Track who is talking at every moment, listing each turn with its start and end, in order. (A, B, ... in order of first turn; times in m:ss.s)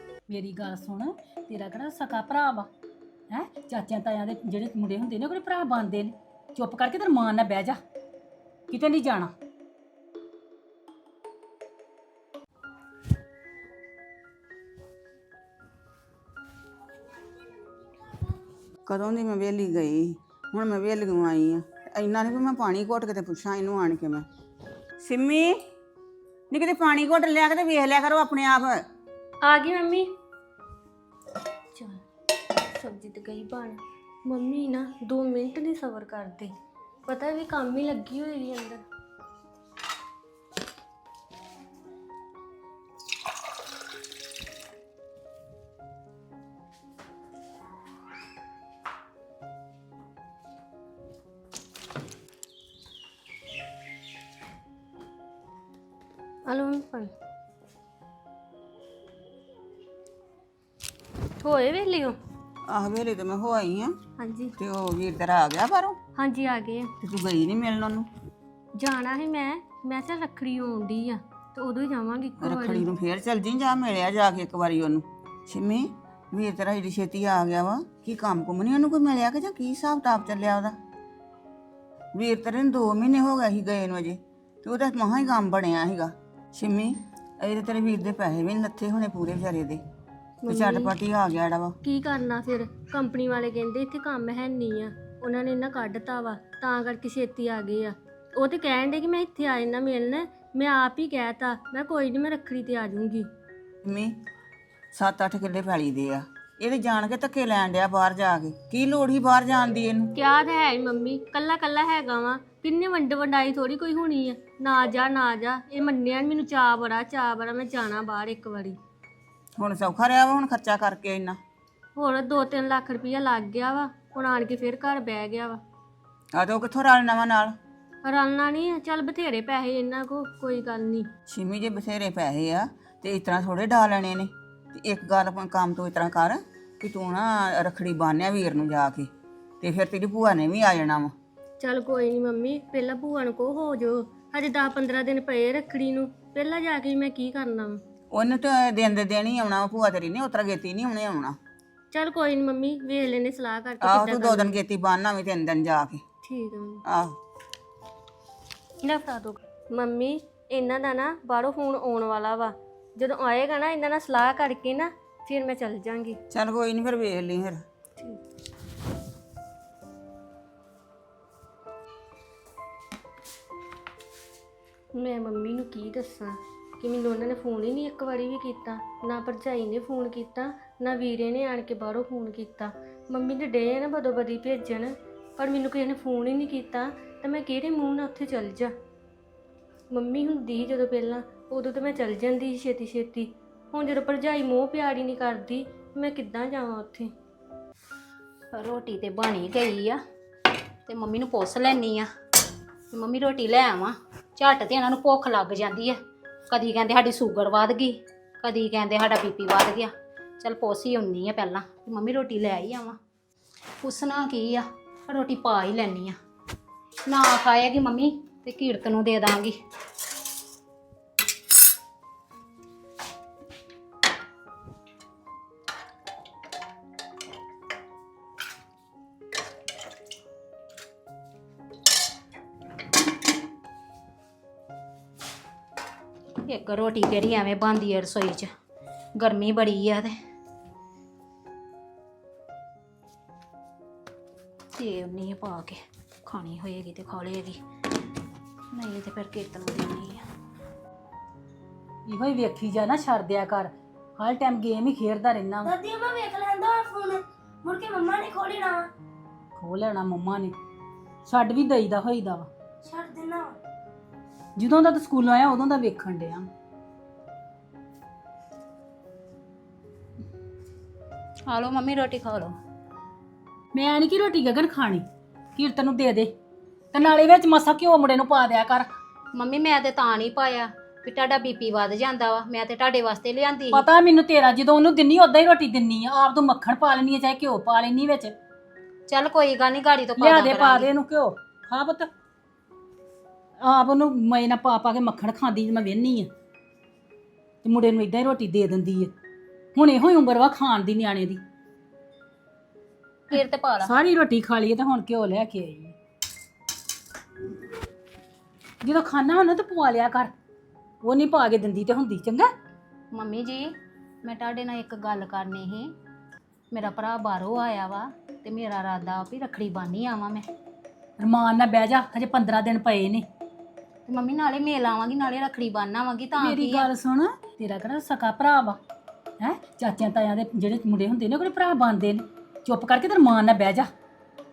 0:00.3-0:02.7 A
0:03.3-0:07.8 A
0:08.7-0:09.3 A
0:18.8-0:24.2 B
0:25.0-0:25.5 B
0:26.5-0:28.8 B
0:29.4-0:30.1 C
0:32.7-0:36.5 C
0:37.0-0:38.8 C
0:56.4-0:57.1 C
1:01.4-1:02.2 C
1:02.7-1:04.0 B
1:04.2-1:04.5 C
1:04.6-1:06.0 B
1:06.2-1:06.9 C
1:07.0-1:08.1 B
1:08.8-1:12.9 C
1:12.4-1:20.8 B
1:22.1-1:29.8 B
1:30.4-1:30.9 C
1:30.5-1:31.8 B
1:31.8-1:43.3 C
1:43.8-1:44.1 B
1:44.9-1:50.1 B
1:50.2-1:58.8 C
1:59.6-2:01.4 B
2:02.0-2:05.6 C
2:06.3-2:07.6 B
2:08.0-2:11.1 C
2:11.3-2:19.1 B
2:19.6-2:21.1 B
2:21.6-2:27.8 C
2:28.1-2:31.4 B
2:31.9-2:34.6 C
2:33.8-2:36.0 B
2:36.2-2:36.8 C
2:36.9-2:37.2 B
2:38.8-2:46.2 C
2:46.3-2:47.6 B
2:55.0-3:08.7 C
3:09.9-3:17.1 C
3:18.5-3:20.0 D
3:20.9-3:22.1 D
3:22.9-3:26.0 D
3:26.5-3:33.0 D
3:33.8-3:36.2 D
3:37.1-3:39.6 D
3:56.5-3:58.5 D
3:59.2-4:00.1 D
4:04.8-4:07.6 D
4:08.7-4:10.2 D
4:12.1-4:15.7 A
4:15.6-4:18.9 E
4:19.6-4:20.5 A
4:21.2-4:22.5 A
4:22.8-4:23.5 E
4:24.6-4:26.5 A
4:31.5-4:32.6 D
4:33.7-4:36.3 A
4:36.9-4:38.9 A
4:39.3-4:43.8 D
4:43.7-4:48.3 A
4:49.1-4:50.9 D
4:50.2-4:52.1 A
4:53.6-4:56.3 A
4:57.6-4:59.1 A
4:59.7-5:01.4 A
5:03.3-5:03.9 D
5:03.3-5:05.9 A
5:08.8-5:10.3 A
5:11.0-5:12.5 A
5:13.1-5:13.7 D
5:14.2-5:15.9 D
5:16.7-5:20.4 D
5:21.2-5:23.2 A
5:24.1-5:26.8 D
5:26.4-5:28.8 A
5:29.4-5:33.9 A